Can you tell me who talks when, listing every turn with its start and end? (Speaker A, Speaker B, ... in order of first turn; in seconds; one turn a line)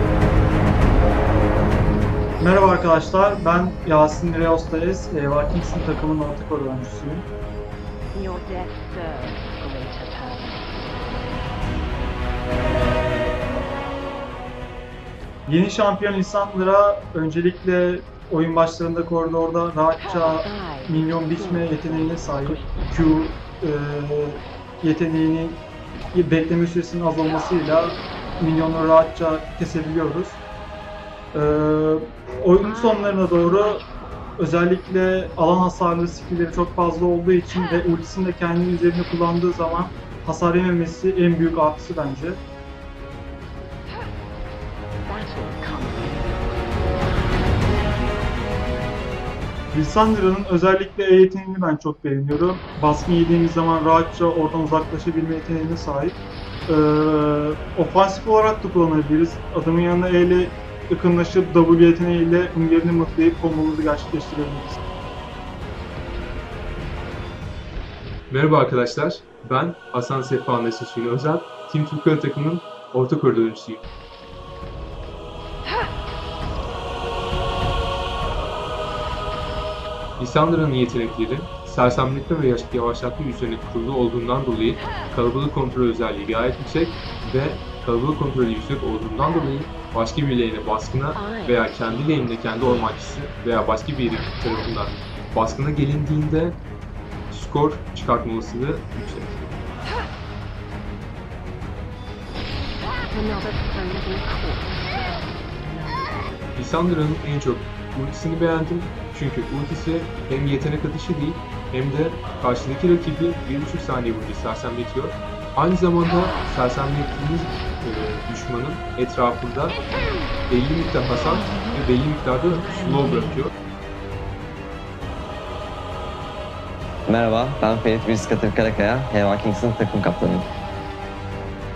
Speaker A: 2.4-7.3
Speaker B: 8.1-10.8
Speaker A: 15.5-25.6
Speaker B: 20.1-23.0
Speaker A: 26.1-30.4
Speaker A: 31.3-33.8
Speaker B: 32.6-34.1
Speaker A: 34.4-42.4
Speaker B: 45.0-47.7
Speaker A: 49.7-64.8
Speaker C: 68.3-73.9
Speaker C: 80.2-96.6
Speaker B: 91.1-92.9
Speaker C: 97.3-99.5
Speaker B: 103.1-106.1
Speaker C: 106.5-119.8
Speaker C: 120.5-123.5
Speaker D: 127.1-130.5